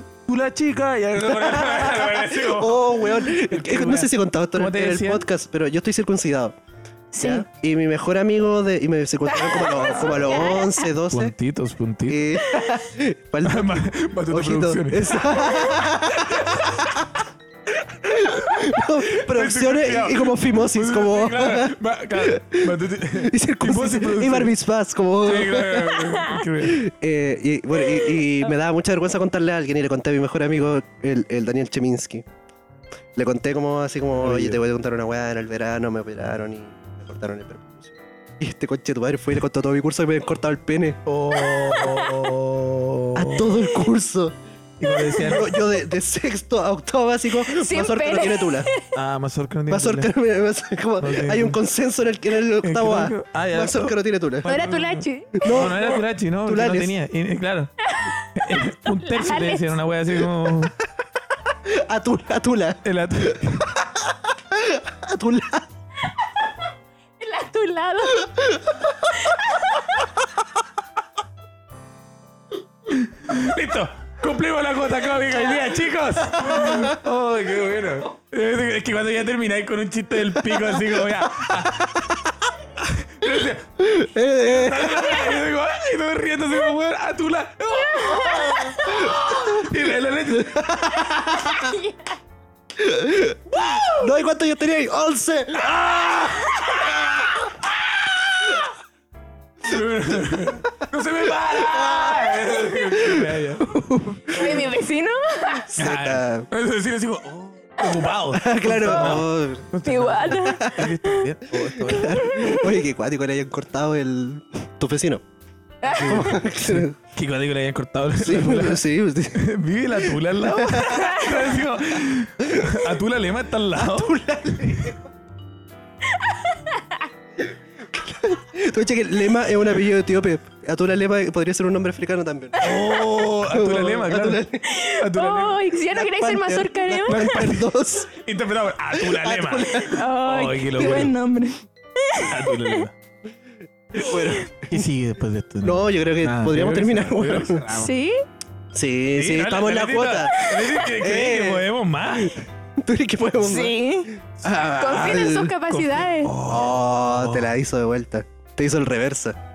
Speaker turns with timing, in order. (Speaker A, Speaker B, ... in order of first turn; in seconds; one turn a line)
Speaker A: 0.3-5.2
Speaker B: 1.2-6.6
Speaker C: 7.1-7.5
Speaker B: 7.2-11.3
Speaker C: 9.3-10.9
Speaker A: 11.1-12.2
Speaker B: 12.1-17.0
Speaker C: 12.4-12.8
Speaker A: 13.4-15.4
Speaker A: 16.2-17.1
Speaker B: 18.1-32.2
Speaker A: 18.1-24.5
Speaker A: 25.3-26.9
Speaker B: 33.2-41.0
Speaker A: 34.2-34.6
Speaker A: 41.1-43.6
Speaker C: 41.7-42.2
Speaker B: 43.1-44.4
Speaker A: 44.8-45.5
Speaker C: 45.1-45.4
Speaker B: 45.2-48.7
Speaker C: 47.5-48.8
Speaker A: 48.9-50.1
Speaker B: 49.7-54.5
Speaker A: 51.0-51.6
Speaker A: 52.6-57.7
Speaker C: 54.5-55.9
Speaker B: 55.4-57.0
Speaker C: 57.9-59.8
Speaker A: 58.3-60.8
Speaker B: 61.6-65.7
Speaker A: 62.8-63.7
Speaker C: 67.2-68.4
Speaker C: 69.2-70.0
Speaker A: 72.9-82.0
Speaker B: 76.5-77.0
Speaker B: 80.5-82.3
Speaker A: 82.8-83.7
Speaker B: 83.8-85.3
Speaker A: 84.4-90.7
Speaker C: 87.8-89.2
Speaker B: 90.3-91.8
Speaker C: 91.5-91.9
Speaker B: 92.8-96.3
Speaker A: 93.5-94.1
Speaker A: 95.6-97.0
Speaker A: 99.6-103.7
Speaker B: 101.5-104.7
Speaker C: 104.3-105.7
Speaker B: 105.6-106.5
Speaker A: 105.8-112.6
Speaker B: 108.3-109.7
Speaker C: 109.8-111.3
Speaker B: 111.8-115.2
Speaker C: 112.0-112.7
Speaker C: 115.8-116.4
Speaker B: 115.9-117.0
Speaker A: 116.0-124.9
Speaker B: 118.2-119.5
Speaker B: 120.0-121.0
Speaker B: 122.4-122.9
Speaker B: 123.8-125.0
Speaker C: 126.2-127.0
Speaker B: 127.9-134.7
Speaker A: 132.6-134.4
Speaker C: 134.6-137.4
Speaker A: 135.0-135.7
Speaker B: 135.9-138.2
Speaker A: 137.1-141.1
Speaker B: 138.9-140.0
Speaker C: 139.8-142.8
Speaker A: 142.2-142.9
Speaker B: 143.9-144.8
Speaker A: 144.7-147.9
Speaker B: 145.6-147.6
Speaker C: 147.7-148.2
Speaker B: 148.7-155.6
Speaker A: 149.2-152.4
Speaker C: 150.4-150.7
Speaker C: 153.4-156.3
Speaker A: 154.8-157.5
Speaker B: 156.4-159.4